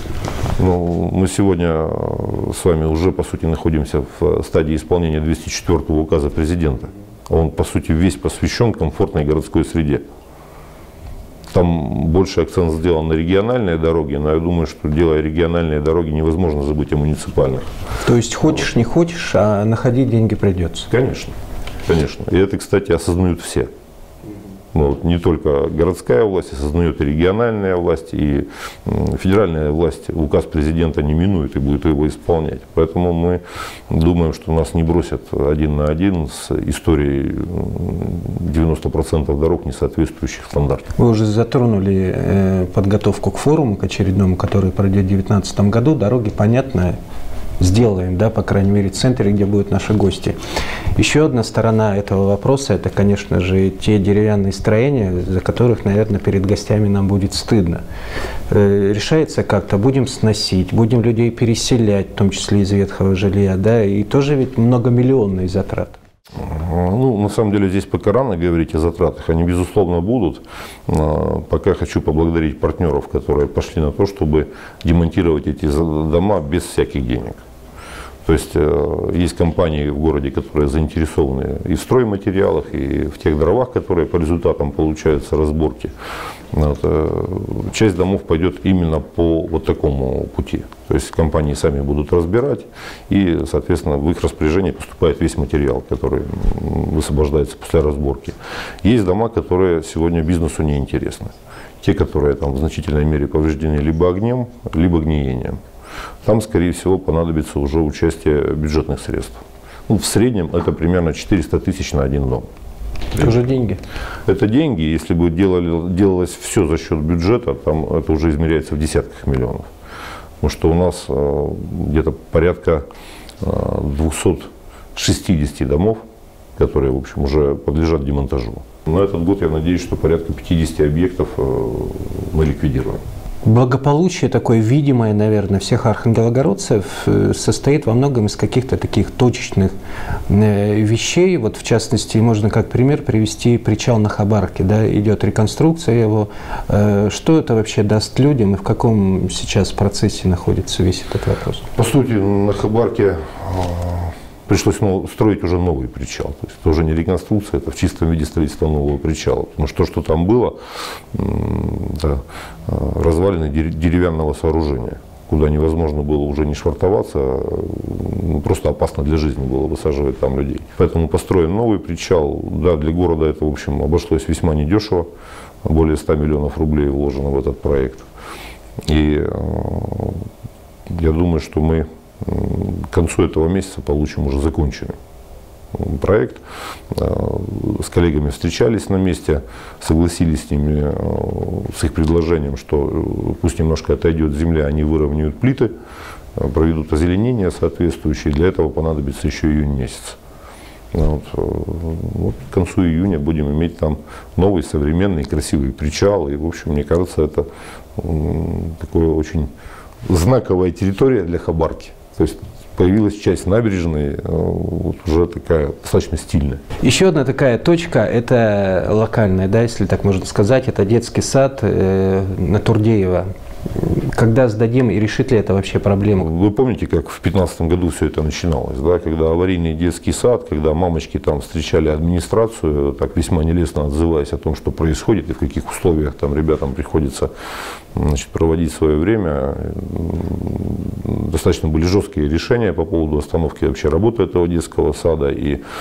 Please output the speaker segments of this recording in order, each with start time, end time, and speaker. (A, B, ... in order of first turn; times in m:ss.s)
0:00.6-0:10.0 A
0:11.5-0:17.7 A
0:18.0-0:20.9 B
0:20.9-0:23.7 A
0:24.7-0:40.9 A
0:41.0-0:47.0 B
0:47.6-0:50.4 B
0:51.0-0:57.8 B
0:58.5-1:06.0 B
1:06.4-1:17.4 A
1:18.2-1:25.9 A
1:26.5-1:45.6 A
1:46.2-1:52.5 A
1:53.1-1:53.8 B
1:54.3-1:59.7 A
2:00.4-2:02.8 A
2:03.4-2:06.0 A
2:06.6-2:13.0 A
2:13.4-2:19.7 B
2:20.3-2:31.7 B
2:31.7-2:40.6 A
2:41.1-2:55.1 A
2:55.6-2:58.1 A
2:58.8-3:00.3 A
3:00.9-3:05.0 A
3:05.7-3:15.7 A
3:16.4-3:20.2 A
3:20.9-3:29.5 A
3:30.1-3:36.6 A
3:36.8-3:46.3 B
3:46.2-3:57.3 A
3:57.9-4:05.6 A